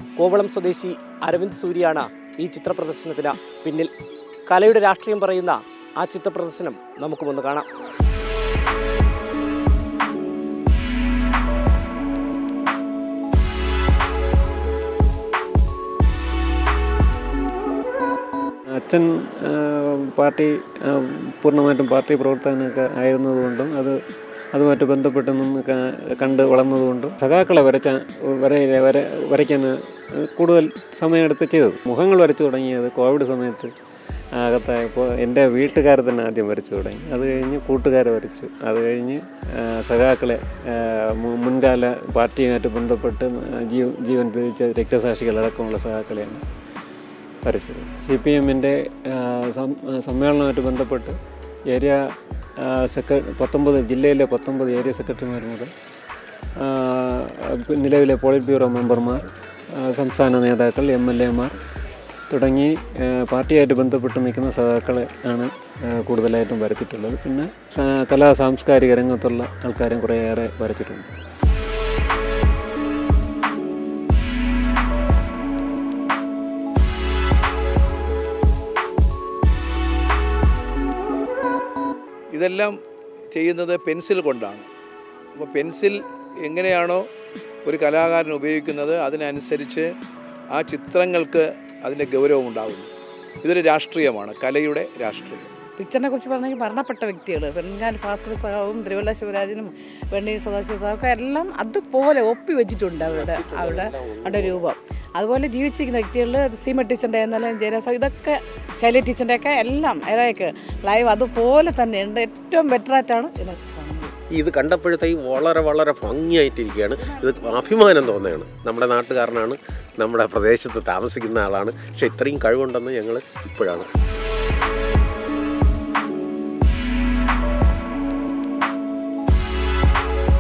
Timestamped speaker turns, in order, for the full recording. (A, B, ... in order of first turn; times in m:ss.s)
0:00.2-0:03.9 A
0:04.5-0:07.7 A
0:18.7-0:24.0 B
0:24.5-0:33.7 B
0:34.4-0:46.4 B
0:47.4-0:51.2 B
0:51.7-0:52.0 B
0:52.6-0:55.7 B
0:56.6-1:01.6 B
1:02.3-1:11.1 B
1:22.3-1:22.8 C
1:23.3-1:24.7 C
1:25.4-1:27.0 C
1:27.7-1:29.9 C
1:30.5-1:32.9 C
1:33.4-1:35.5 C
1:35.8-1:54.1 D
1:43.1-1:44.6 E
1:54.4-2:03.9 E
1:57.2-1:57.7 D